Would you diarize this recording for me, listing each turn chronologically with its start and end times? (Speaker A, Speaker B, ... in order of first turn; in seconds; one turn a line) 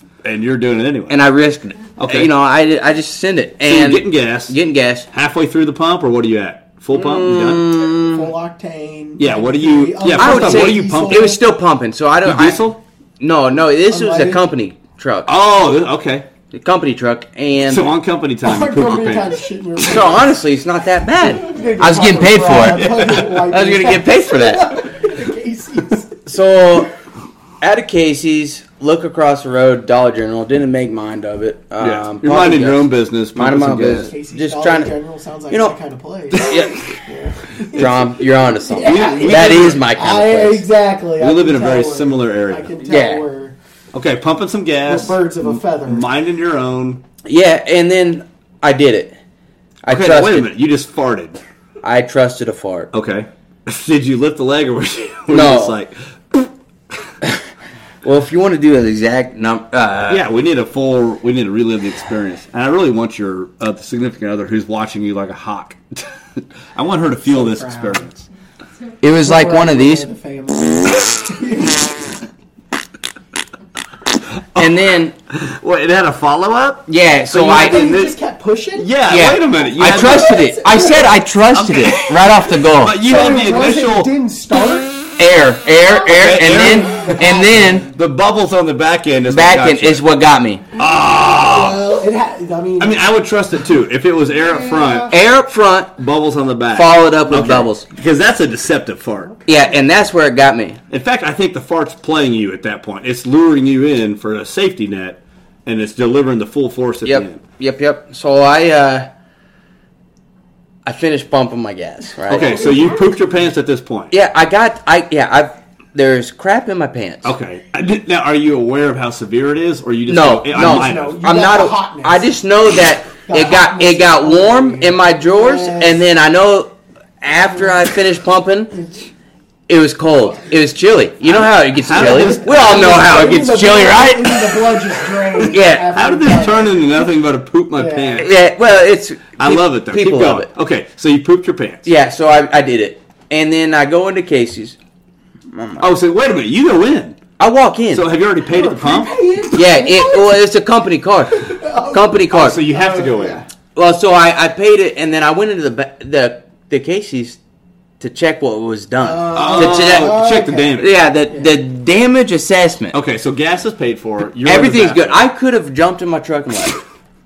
Speaker A: 0.2-1.2
Speaker B: 1.1-5.1
Speaker A: 2.0-2.3
Speaker A: 3.6-4.6
Speaker A: 5.1-7.7
Speaker B: 6.9-8.3
Speaker C: 8.1-11.4
Speaker A: 9.2-11.3
Speaker B: 10.1-15.3
Speaker A: 12.2-12.8
Speaker C: 13.9-14.4
Speaker A: 15.2-16.3
Speaker B: 16.5-17.9
Speaker A: 17.6-19.4
Speaker C: 18.4-20.3
Speaker B: 19.8-24.9
Speaker C: 21.2-26.1
Speaker A: 22.7-23.3
Speaker B: 26.2-26.9
Speaker B: 27.6-34.9
Speaker A: 31.8-34.1
Speaker C: 34.0-38.0
Speaker B: 35.5-35.8
Speaker B: 36.4-36.8
Speaker A: 36.4-36.7
Speaker B: 37.7-40.6
Speaker A: 37.7-38.0
Speaker C: 38.7-43.6
Speaker A: 38.8-39.8
Speaker A: 41.2-42.7
Speaker B: 42.9-43.2
Speaker A: 43.9-47.0
Speaker C: 44.9-46.1
Speaker B: 47.2-49.2
Speaker B: 49.8-50.5
Speaker A: 49.9-51.4
Speaker B: 51.8-52.9
Speaker A: 52.9-57.1
Speaker B: 55.3-55.7
Speaker B: 58.0-60.2
Speaker A: 60.1-68.2
Speaker C: 67.2-68.1
Speaker B: 69.0-70.1
Speaker C: 69.2-72.1
Speaker A: 74.5-78.2
Speaker B: 74.5-75.1
Speaker B: 76.9-77.9
Speaker C: 77.4-78.9
Speaker A: 78.8-80.5
Speaker B: 79.1-83.0
Speaker C: 79.8-81.1
Speaker A: 81.5-84.1
Speaker C: 83.0-85.0
Speaker B: 85.2-87.9
Speaker A: 86.1-87.1
Speaker C: 86.4-87.9
Speaker A: 87.8-90.0
Speaker B: 89.3-90.6
Speaker A: 90.8-91.8
Speaker C: 91.3-93.0
Speaker A: 92.8-95.2
Speaker C: 94.4-95.1
Speaker B: 95.1-95.9
Speaker A: 96.0-99.3
Speaker B: 96.7-97.9
Speaker C: 99.2-99.8
Speaker B: 99.5-100.8
Speaker A: 100.9-107.4
Speaker B: 107.0-109.1
Speaker B: 110.8-112.6
Speaker A: 112.3-114.1
Speaker C: 112.4-113.0
Speaker B: 114.1-117.3
Speaker A: 117.2-121.2
Speaker B: 120.1-128.7
Speaker C: 120.5-122.3
Speaker C: 123.2-126.0
Speaker C: 127.3-127.8
Speaker C: 128.7-129.1
Speaker B: 129.7-134.6
Speaker A: 131.2-133.0
Speaker C: 131.9-136.9
Speaker B: 135.5-136.0
Speaker A: 135.9-138.3
Speaker C: 137.7-138.3
Speaker B: 138.2-140.5
Speaker A: 139.4-141.9
Speaker B: 141.8-144.8
Speaker B: 145.5-145.9
Speaker A: 145.8-147.2
Speaker B: 147.4-148.1
Speaker A: 147.9-149.1
Speaker C: 148.4-150.3
Speaker B: 149.5-152.6
Speaker C: 151.4-153.5
Speaker A: 152.3-153.4
Speaker B: 153.7-157.4
Speaker B: 158.0-163.0
Speaker C: 159.0-161.5
Speaker A: 159.3-160.9
Speaker A: 162.9-165.2
Speaker B: 164.4-166.8